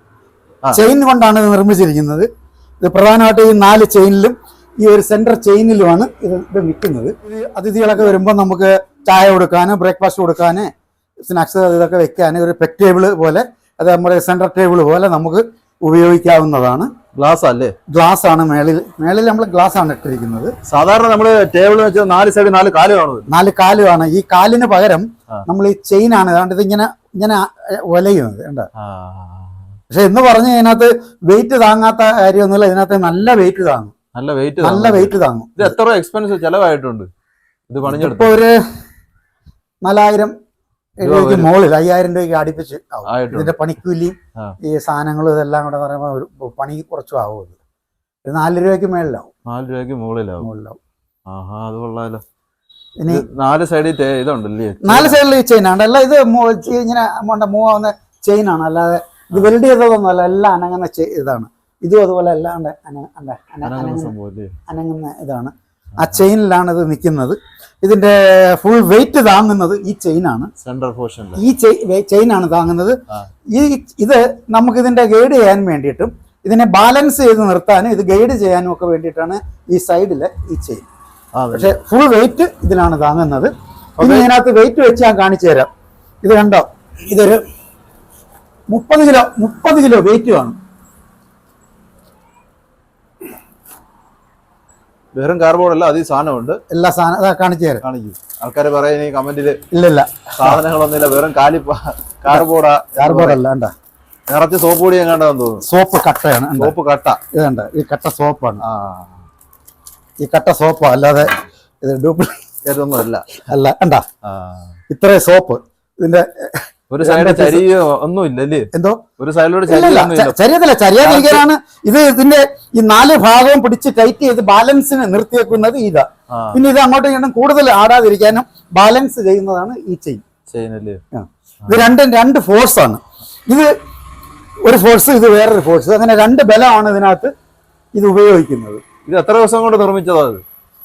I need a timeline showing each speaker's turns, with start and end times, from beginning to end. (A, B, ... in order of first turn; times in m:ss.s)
0:00.7-0:02.3 A
0:02.8-0:10.7 A
0:11.2-0:16.9 A
0:17.1-0:17.8 B
0:17.9-0:20.5 A
0:20.7-0:23.3 B
0:23.3-0:28.7 A
0:28.8-0:29.7 B
0:29.9-0:33.9 A
0:34.2-0:37.1 B
0:34.6-0:35.8 A
0:37.7-0:38.4 B
0:37.9-0:38.6 A
0:39.8-0:40.3 A
0:41.0-0:47.6 A
0:41.0-0:41.5 B
0:43.1-0:43.6 B
0:48.2-0:49.3 A
0:49.5-0:50.5 B
0:50.4-0:50.8 A
0:51.3-0:52.2 B
0:53.1-0:55.2 B
0:54.8-1:04.1 A
1:03.6-1:04.5 B
1:04.7-1:10.5 A
1:06.0-1:06.2 B
1:10.6-1:11.4 B
1:11.4-1:13.0 A
1:13.5-1:20.9 A
1:21.4-1:21.7 B
1:21.5-1:25.7 A
1:24.0-1:24.3 B
1:26.2-1:27.4 A
1:28.7-1:30.6 A
1:35.1-1:36.6 B
1:36.7-1:37.8 A
1:37.8-1:39.6 B
1:39.7-1:40.6 A
1:40.4-1:43.4 B
1:43.0-1:43.7 A
1:44.3-1:45.6 B
1:45.6-1:46.8 A
1:46.6-1:47.2 B
1:47.3-1:48.6 A
1:48.6-1:49.2 B
1:50.2-1:52.3 A
1:52.7-1:53.3 B
1:53.4-1:54.0 A
1:54.2-1:54.7 B
1:54.9-1:57.6 A
1:56.9-2:00.4 B
1:58.7-1:59.0 A
1:59.7-2:10.2 A
2:01.0-2:01.4 B
2:06.3-2:06.6 B
2:10.5-2:11.0 B
2:11.1-2:13.7 A
2:11.6-2:11.9 B
2:14.6-2:17.3 A
2:17.9-2:18.8 A
2:19.1-2:20.4 B